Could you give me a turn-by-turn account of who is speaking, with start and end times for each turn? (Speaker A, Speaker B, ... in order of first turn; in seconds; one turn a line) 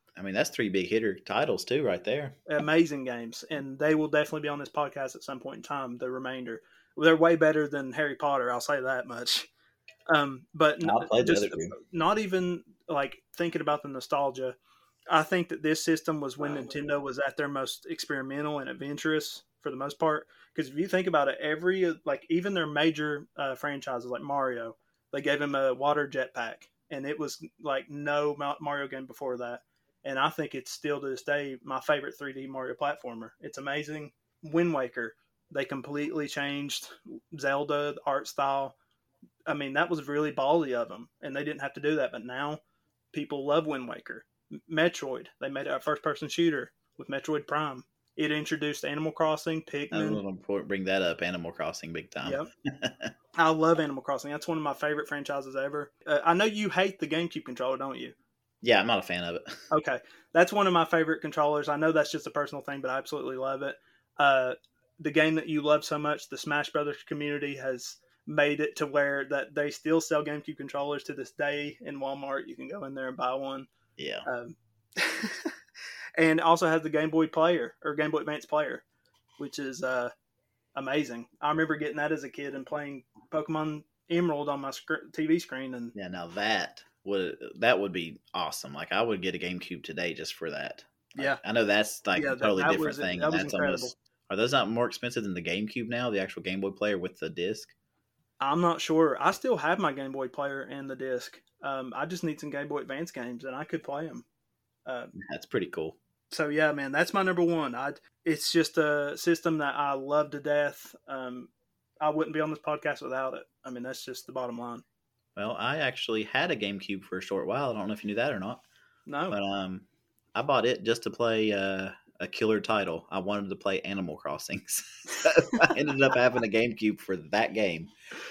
Speaker A: 0.1-2.4
Speaker B: 2.5-9.5
Speaker B: 10.1-14.6
Speaker A: 10.8-11.7
Speaker B: 15.1-38.7
Speaker B: 39.5-42.6
Speaker B: 43.1-50.2
Speaker A: 49.9-53.1
Speaker B: 53.3-58.1
Speaker A: 58.6-59.6
Speaker B: 59.7-73.7
Speaker A: 74.0-74.3
Speaker B: 74.2-75.5
Speaker B: 76.2-78.8
Speaker B: 79.4-80.1
Speaker B: 80.8-86.0
Speaker A: 86.0-97.7
Speaker B: 92.2-93.9
Speaker B: 98.4-104.2
Speaker B: 104.9-105.1
Speaker A: 105.1-106.0
Speaker B: 106.3-111.5
Speaker B: 112.0-114.8
Speaker A: 115.4-118.6
Speaker B: 119.1-119.4
Speaker A: 119.3-127.9